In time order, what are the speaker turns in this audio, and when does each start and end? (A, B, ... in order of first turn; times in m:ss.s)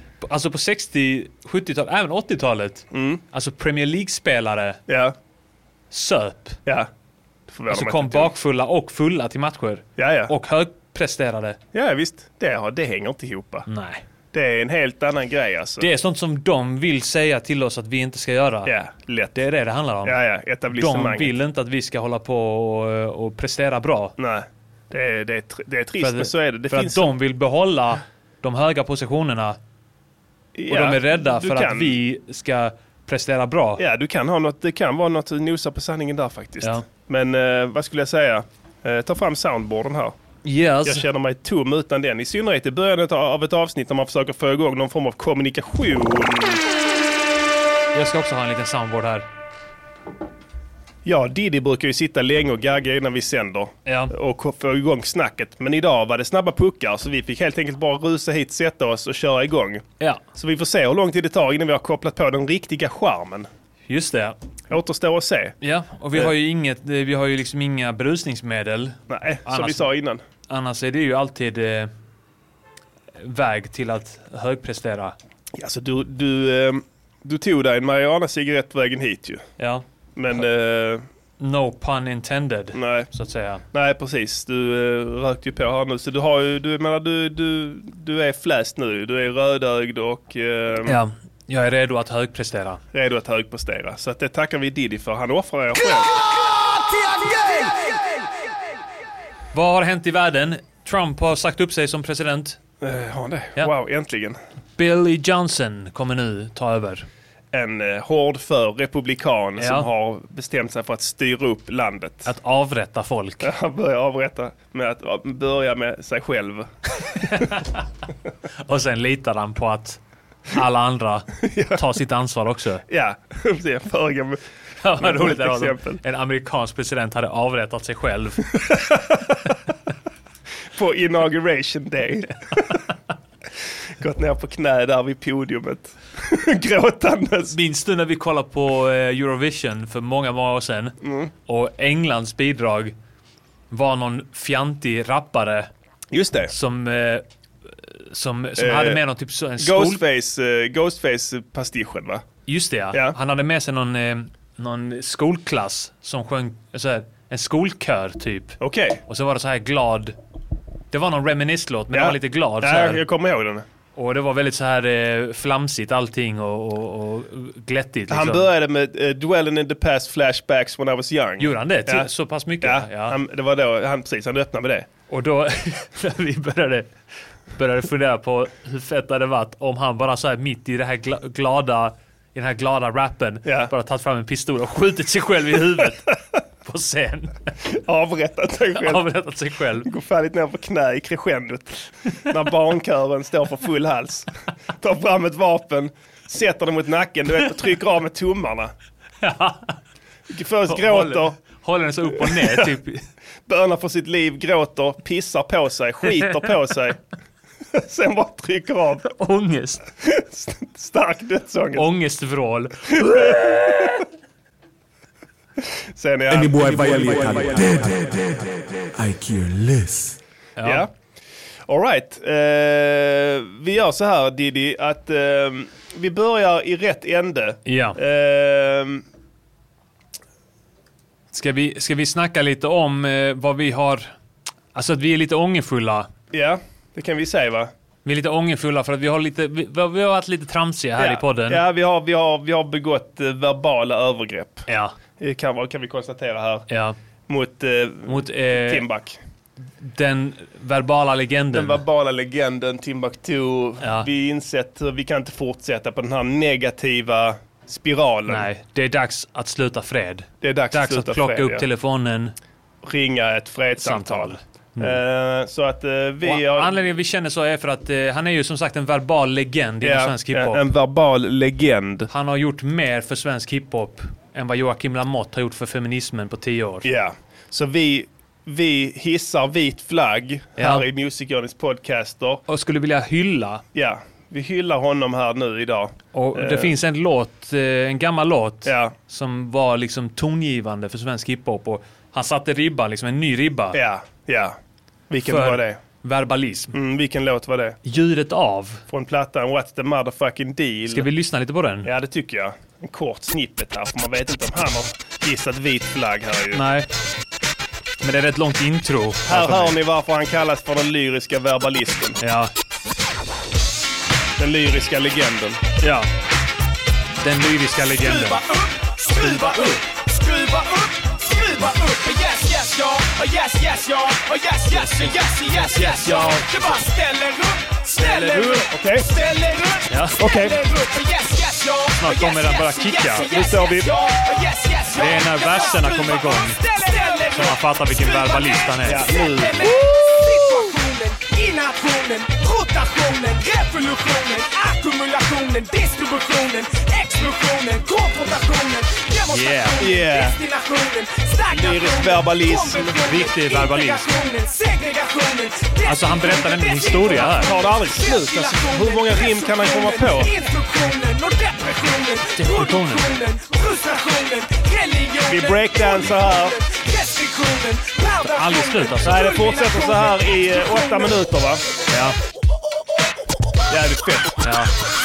0:00.2-0:04.8 A
0:02.9-0:03.2 B
0:04.9-0:05.1 B
0:05.9-0:06.6 A
0:07.5-0:08.3 B
0:07.7-0:11.6 A
0:10.0-0:10.3 B
0:11.7-0:13.7 B
0:13.7-0:14.0 A
0:14.3-0:15.8 B
0:15.8-0:18.7 A
0:18.6-0:19.4 B
0:19.3-0:20.2 A
0:20.0-0:21.3 B
0:20.7-0:24.1 A
0:24.2-0:27.1 B
0:26.0-0:29.6 A
0:30.6-0:32.0 B
0:30.7-0:33.8 A
0:33.8-0:40.2 B
0:40.4-0:41.0 A
0:40.8-0:46.6 B
0:47.9-0:49.3 A
0:51.0-1:03.5 B
0:53.8-0:54.1 A
1:03.9-1:04.4 A
1:04.7-1:05.5 B
1:05.6-1:09.9 A
1:09.1-1:10.2 B
1:10.5-1:11.9 A
1:13.2-1:15.1 A
1:15.5-1:19.4 B
1:19.6-1:19.8 A
1:20.2-1:21.0 B
1:21.4-1:23.6 A
1:22.7-1:23.1 B
1:23.7-1:31.0 B
1:30.9-1:32.8 A
1:32.9-1:36.1 B
1:36.1-1:38.0 C
1:39.5-1:42.6 A
1:42.8-1:44.4 B
1:44.8-1:47.1 A
1:47.5-1:52.3 B
1:49.6-1:49.9 A
1:52.2-1:53.5 A
1:53.4-1:56.7 B
1:57.3-1:57.6 A
1:58.6-2:00.0 A
2:00.5-2:02.8 A
2:01.4-2:01.8 B
2:02.9-2:04.4 B
2:04.8-2:08.6 A
2:05.0-2:06.0 B
2:08.7-2:09.2 B
2:10.7-2:12.6 B
2:14.0-2:17.5 B
2:17.5-2:21.0 A
2:21.0-2:21.3 B
2:21.5-2:22.9 A
2:23.7-2:25.7 A
2:26.1-2:26.5 B
2:26.5-2:27.2 A
2:28.1-2:30.0 A
2:28.6-2:29.0 B
2:29.6-2:32.2 B
2:32.5-2:40.1 A
2:38.6-2:39.0 B
2:40.9-2:43.0 A
2:41.9-2:43.6 B
2:44.0-2:48.5 A
2:48.1-2:52.1 B
2:51.4-2:53.2 A
2:52.6-2:54.9 B
2:55.1-2:56.9 A
2:57.5-3:07.5 A
3:03.4-3:03.7 B
3:07.7-3:09.0 B
3:08.8-3:09.9 A
3:09.8-3:18.7 B
3:19.2-3:19.7 A
3:20.3-3:21.4 B
3:20.7-3:23.0 A
3:22.2-3:22.6 B
3:23.5-3:27.0 B
3:27.7-3:29.1 B
3:29.1-3:29.8 A
3:30.0-3:31.8 B
3:31.8-3:34.0 A
3:33.0-3:33.7 B
3:35.9-3:36.6 B
3:36.8-3:37.1 C
3:40.6-3:40.8 A
3:40.6-3:40.9 B
3:41.7-3:49.0 B
3:47.6-3:48.0 A
3:51.3-3:54.1 A
3:54.7-3:56.1 A
3:56.3-3:57.7 B
3:58.0-4:01.6 A
4:01.0-4:04.7 B
4:05.2-4:06.6 B
4:06.7-4:07.0 A
4:07.3-4:09.2 B
4:08.1-4:08.8 A
4:09.8-4:11.8 A
4:11.5-4:18.5 B
4:13.8-4:14.1 A
4:18.3-4:22.3 A
4:20.4-4:21.6 B
4:22.8-4:26.7 B
4:23.8-4:25.0 A
4:26.2-4:30.6 A
4:29.8-4:32.1 B
4:32.1-4:36.8 A
4:36.8-4:42.4 B
4:40.6-4:40.8 A
4:42.5-4:43.6 A
4:43.7-4:46.7 B
4:46.1-4:53.8 A
4:48.6-4:48.9 B
4:53.7-4:54.6 B
4:55.1-4:55.8 B
4:55.2-4:56.7 A
4:56.7-4:57.8 B
4:57.8-4:58.8 A
4:58.9-5:01.1 B
5:00.9-5:01.9 A
5:01.8-5:06.6 B
5:06.5-5:06.9 A
5:08.0-5:09.8 A
5:09.3-5:12.2 B
5:12.2-5:12.5 A
5:14.4-5:15.6 B
5:15.8-5:16.1 A
5:17.2-5:18.4 A
5:19.2-5:19.5 A
5:19.4-5:19.7 B
5:25.8-5:26.5 A
5:28.0-5:29.1 B
5:29.9-5:30.2 A
5:30.2-5:30.6 B
5:32.0-5:33.3 A
5:33.3-5:33.9 B
5:35.0-5:36.6 A
5:37.3-5:39.1 A
5:38.8-5:39.7 B
5:49.3-5:49.8 A
5:49.8-5:50.4 B
5:51.5-5:53.0 B
5:53.0-5:54.1 A
5:55.8-5:57.5 A
5:57.1-6:00.3 B
6:02.4-6:03.2 A
6:05.2-6:06.6 B
6:08.2-6:09.4 A
6:09.0-6:11.6 B
6:11.9-6:12.2 A
6:13.7-6:14.4 B
6:14.4-6:14.7 A